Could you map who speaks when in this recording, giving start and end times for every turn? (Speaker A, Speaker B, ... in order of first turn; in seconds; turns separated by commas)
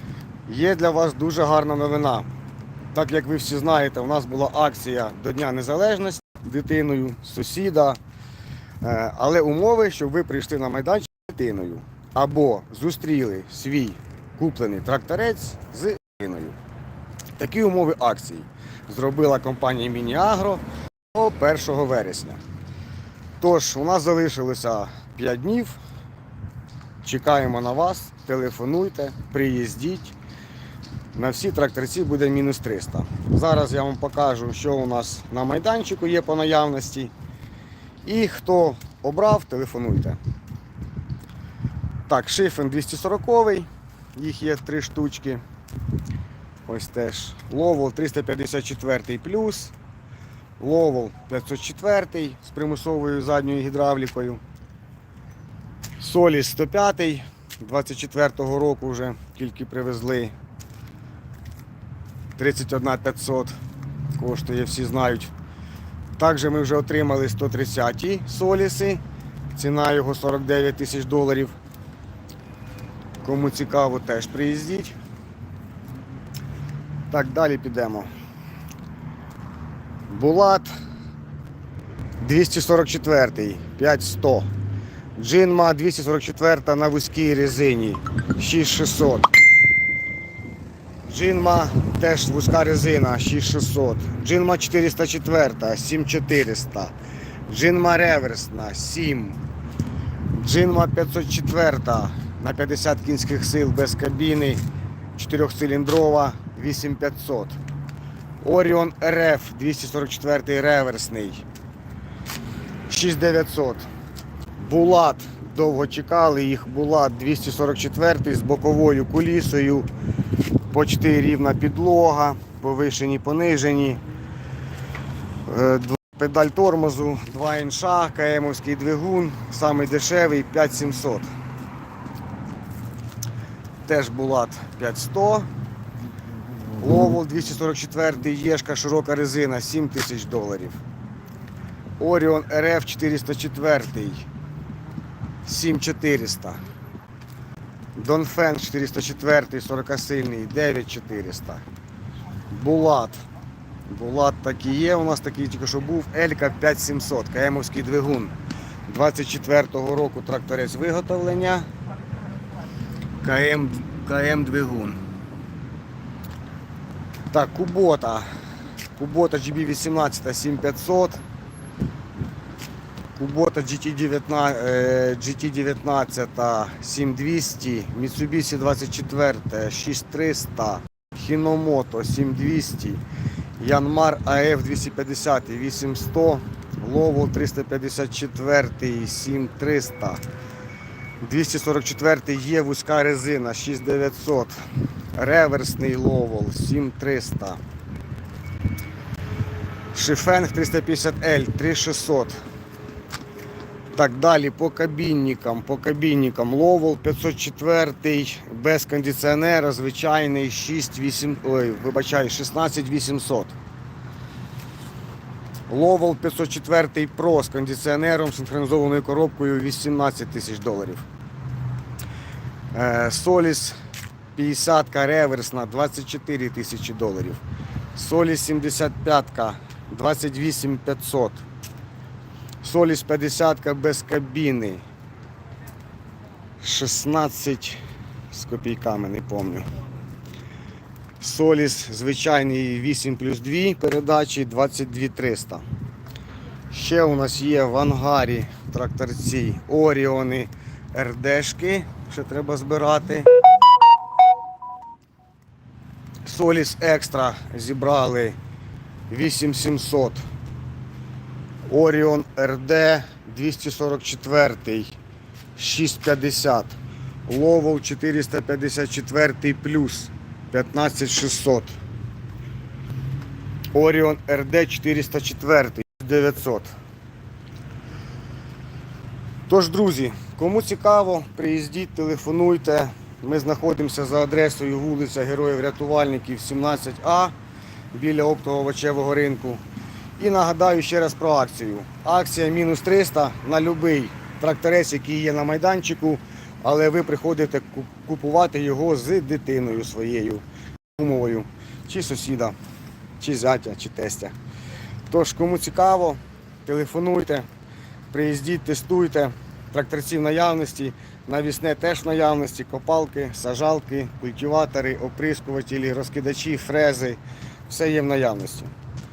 Speaker A: 0.5-2.2, Speaker A: 2.9-8.0, Speaker A: 8.8-16.6, Speaker A: 17.4-22.4, Speaker A: 23.4-25.8, Speaker A: 27.0-30.1, Speaker A: 31.1-37.1, Speaker A: 38.0-40.2, Speaker A: 42.1-45.4, Speaker A: 46.6-49.7, Speaker A: 50.6-54.4, Speaker A: 56.0-60.3, Speaker A: 62.4-63.5, Speaker A: 64.1-65.3, Speaker A: 66.2-69.0, Speaker A: 69.5-71.5, Speaker A: 73.2-75.0, Speaker A: 77.1-78.1, Speaker A: 80.1-80.7, Speaker A: 82.2-84.5, Speaker A: 85.2-89.3, Speaker A: 91.0-96.9, Speaker A: 97.5-99.4, Speaker A: 100.3-104.6, Speaker A: 105.1-107.6, Speaker A: 108.4-111.4, Speaker A: 112.9-113.9, Speaker A: 114.6-119.9, Speaker A: 120.7-124.0, Speaker A: 125.5-131.3, Speaker A: 133.8-135.5, Speaker A: 136.8-140.8, Speaker A: 142.0-144.2, Speaker A: 145.4-146.6, Speaker A: 147.9-151.6, Speaker A: 152.5-153.2, Speaker A: 153.9-158.3, Speaker A: 158.9-161.7, Speaker A: 163.2-165.0, Speaker A: 167.3-168.2, Speaker A: 168.9-171.2, Speaker A: 173.2-183.0, Speaker A: 183.6-190.2, Speaker A: 191.2-194.6, Speaker A: 195.1-197.6, Speaker A: 199.9-202.3, Speaker A: 203.9-213.5, Speaker A: 215.7-221.1, Speaker A: 222.7-223.8, Speaker A: 224.3-227.4, Speaker A: 227.9-231.4, Speaker A: 232.6-234.8, Speaker A: 236.6-237.8, Speaker A: 238.3-239.7, Speaker A: 241.2-245.6, Speaker A: 246.7-253.3, Speaker A: 256.2-258.4, Speaker A: 259.1-260.2, Speaker A: 261.7-264.9, Speaker A: 265.6-266.7, Speaker A: 267.3-271.7, Speaker A: 273.7-276.7, Speaker A: 279.5-287.3, Speaker A: 287.9-289.6, Speaker A: 290.2-300.4, Speaker A: 301.0-302.5, Speaker A: 303.2-304.3, Speaker A: 305.1-307.5, Speaker A: 308.1-318.7